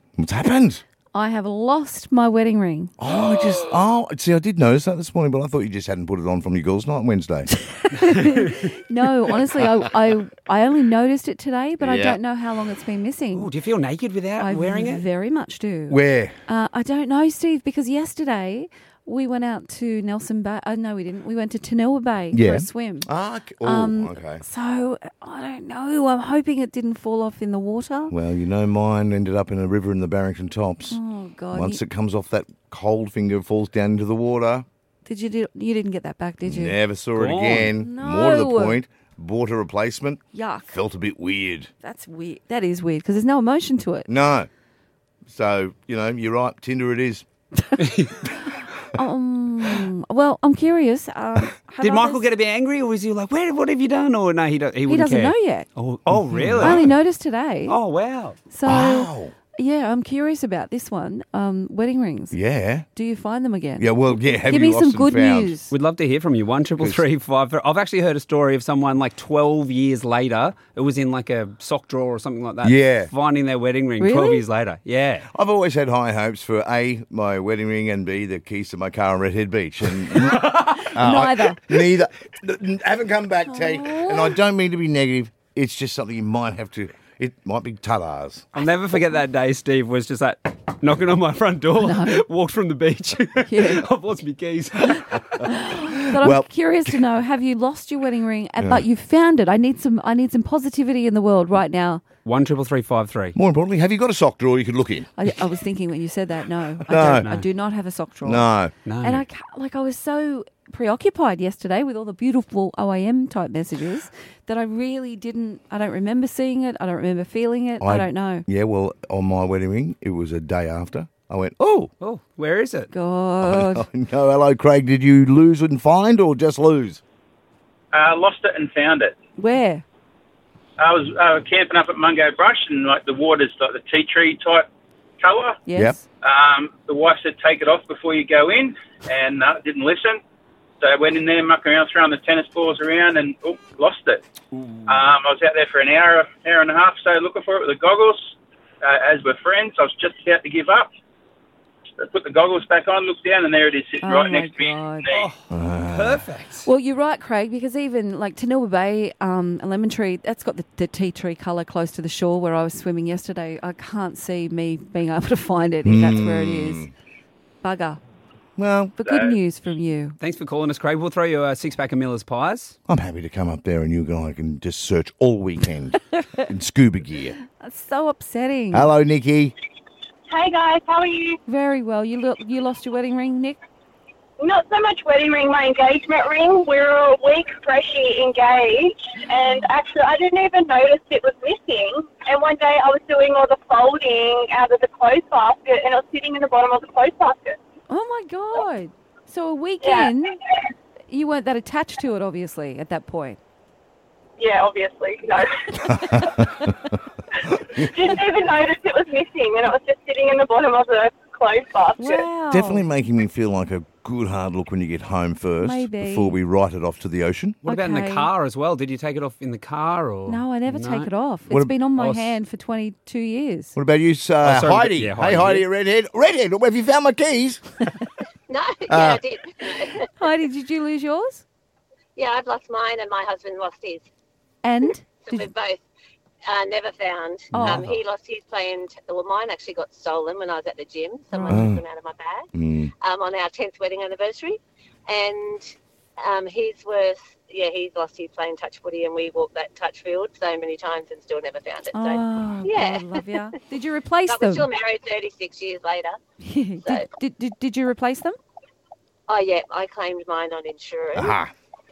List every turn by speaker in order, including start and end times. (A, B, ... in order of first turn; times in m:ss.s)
0:00.2-0:00.8 A
0:01.1-0:02.9 B
0:03.0-0:07.6 A
0:07.8-0:13.5 B
0:08.1-0:08.4 C
0:11.8-0:12.2 A
0:13.3-0:15.0 C
0:14.4-0:23.1 B
0:15.9-0:16.4 A
0:22.3-0:24.4 A
0:23.6-0:28.1 B
0:28.1-0:31.0 A
0:30.9-0:31.8 B
0:31.5-0:34.6 A
0:35.0-0:36.8 B
0:36.4-0:41.7 A
0:37.2-0:37.7 C
0:37.8-0:38.8 B
0:40.3-0:40.8 B
0:41.8-0:44.1 B
0:44.1-0:44.5 A
0:45.3-0:47.3 A
0:47.8-0:48.2 C
0:48.5-0:52.3 B
0:51.8-0:56.9 C
0:54.9-0:55.7 B
0:56.1-0:56.9 A
0:56.6-0:57.8 B
0:57.7-0:58.4 C
0:58.5-1:02.4 B
0:58.6-0:59.3 A
1:02.3-1:02.9 A
1:03.0-1:05.7 B
1:03.8-1:05.6 A
1:05.7-1:15.3 C
1:06.8-1:07.0 A
1:12.6-1:13.1 A
1:14.0-1:14.4 B
1:15.3-1:28.5 A
1:20.1-1:20.9 C
1:20.8-1:21.6 B
1:23.5-1:24.4 B
1:28.6-1:35.4 C
1:31.8-1:32.2 B
1:33.5-1:33.8 B
1:35.5-1:42.0 B
1:35.9-1:37.0 A
1:38.6-1:38.8 A
1:42.2-1:43.4 C
1:43.4-1:45.1 A
1:45.2-1:48.5 B
1:46.9-1:47.3 A
1:47.1-1:47.5 C
1:48.2-1:48.7 A
1:48.9-1:49.2 C
1:49.0-1:58.4 B
1:57.8-2:01.9 A
2:02.0-2:02.9 C
2:02.9-2:03.9 B
2:03.4-2:07.0 A
2:07.9-2:09.2 D
2:09.4-2:09.8 B
2:10.8-2:14.7 D
2:15.2-2:15.6 D
2:15.7-2:16.1 B
2:16.2-2:20.2 D
2:20.8-2:24.2 D
2:24.6-2:25.0 C
2:24.9-2:30.9 D
2:32.0-2:35.3 D
2:34.0-2:35.1 B
2:35.1-2:36.7 C
2:35.5-2:36.3 A
2:36.6-2:46.9 B
2:45.8-2:46.9 A
2:47.6-2:48.0 B
2:48.6-2:49.0 A
2:49.0-2:50.2 B
2:49.0-2:49.4 D
2:50.2-2:52.8 C
2:52.9-2:57.4 A
2:57.6-2:58.9 B
2:58.7-2:59.5 A
3:00.3-3:01.4 E
3:01.5-3:03.6 B
3:04.4-3:17.6 E
3:17.9-3:20.4 B
3:19.8-3:20.2 E
3:21.1-3:23.4 B
3:24.4-3:26.3 E
3:26.0-3:26.7 A
3:27.8-3:32.3 E
3:32.0-3:32.8 B
3:32.5-3:37.6 A
3:35.6-3:36.4 B
3:37.6-3:41.1 C
3:37.7-3:38.3 B
3:40.3-3:43.8 B
3:41.5-3:41.8 A
3:42.0-3:42.4 C
3:43.8-3:48.0 A
3:44.4-3:45.7 C
3:48.5-3:50.0 F
3:48.9-3:49.2 A
3:50.2-3:51.4 B
3:52.2-3:54.0 F
3:54.6-3:55.5 B
3:55.2-3:55.8 F
3:56.5-4:02.5 F
3:57.5-3:57.8 A
3:57.5-3:58.0 C
4:01.3-4:01.6 B
4:01.5-4:01.8 A
4:02.5-4:02.9 A
4:03.0-4:13.2 F
4:11.9-4:14.7 B
4:14.3-4:16.2 F
4:16.4-4:18.4 B
4:19.3-4:21.4 F
4:21.1-4:21.5 A